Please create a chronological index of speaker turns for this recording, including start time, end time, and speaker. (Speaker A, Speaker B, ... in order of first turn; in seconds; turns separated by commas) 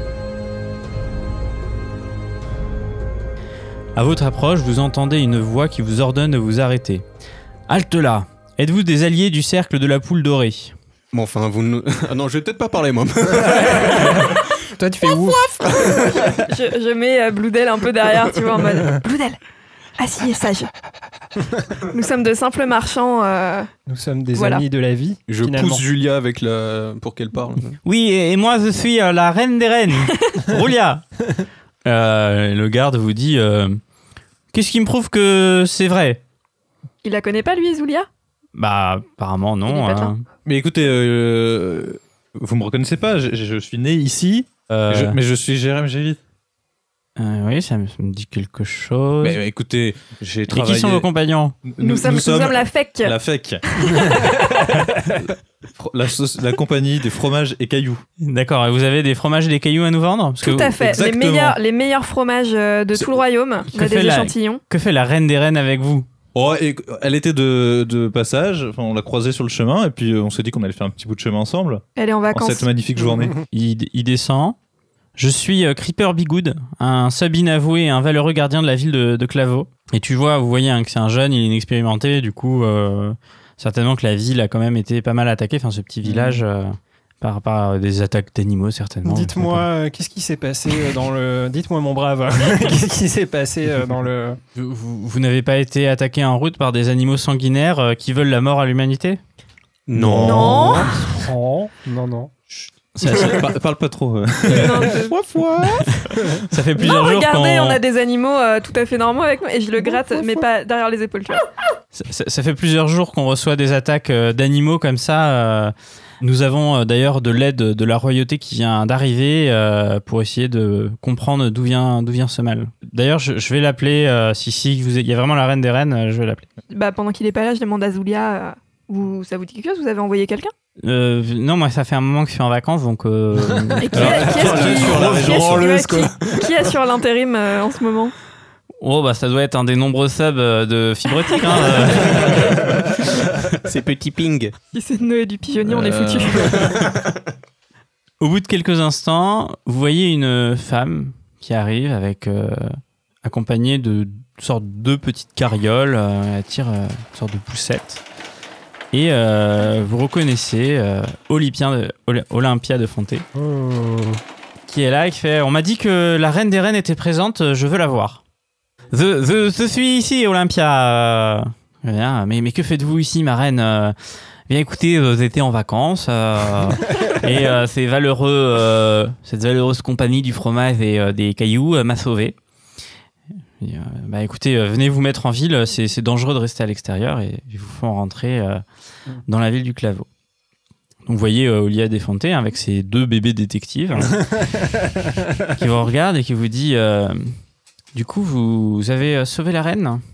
Speaker A: 4.0-7.0, Speaker A: 7.7-10.8, Speaker B: 11.1-14.5, Speaker C: 13.6-15.7, Speaker D: 15.1-19.4, Speaker D: 20.0-20.7, Speaker D: 21.9-23.7, Speaker C: 23.9-25.8, Speaker D: 24.4-24.6, Speaker B: 25.3-27.7, Speaker A: 27.8-31.1, Speaker A: 31.9-33.8, Speaker A: 34.5-36.2, Speaker D: 37.0-38.1, Speaker A: 38.6-40.2, Speaker D: 39.7-40.1, Speaker E: 40.5-46.2, Speaker A: 44.7-45.2, Speaker A: 47.2-49.4, Speaker E: 49.2-51.1, Speaker A: 50.5-51.6, Speaker E: 51.6-53.6, Speaker D: 51.8-53.1, Speaker D: 53.8-54.4, Speaker E: 55.1-58.0, Speaker A: 58.2-60.8, Speaker D: 60.4-64.6, Speaker E: 60.8-61.6, Speaker A: 63.7-66.1, Speaker E: 66.3-73.4, Speaker D: 72.0-72.7, Speaker A: 73.5-74.6, Speaker A: 75.2-89.7, Speaker C: 86.1-86.4, Speaker C: 89.0-94.4, Speaker A: 94.6-99.2, Speaker B: 99.9-100.8, Speaker E: 99.9-100.9, Speaker D: 100.2-100.9, Speaker C: 100.6-102.3, Speaker A: 102.9-103.5, Speaker E: 103.0-105.0, Speaker D: 104.4-105.2, Speaker B: 105.1-105.9, Speaker A: 105.8-107.8, Speaker D: 106.8-111.5, Speaker A: 111.9-126.5, Speaker D: 126.7-130.5, Speaker A: 130.8-134.2, Speaker D: 133.8-138.1, Speaker E: 133.9-135.9, Speaker B: 134.3-136.5, Speaker A: 138.8-142.7, Speaker B: 142.1-142.6, Speaker B: 143.5-144.6, Speaker D: 144.7-146.8, Speaker E: 145.7-146.6, Speaker B: 146.8-147.1, Speaker A: 148.2-158.0, Speaker A: 158.9-163.3, Speaker C: 163.3-164.2, Speaker A: 164.7-168.2, Speaker A: 168.9-173.9, Speaker A: 174.5-182.3, Speaker A: 183.6-188.6, Speaker A: 189.3-190.1, Speaker A: 191.1-194.2, Speaker A: 195.5-197.3, Speaker A: 197.9-200.0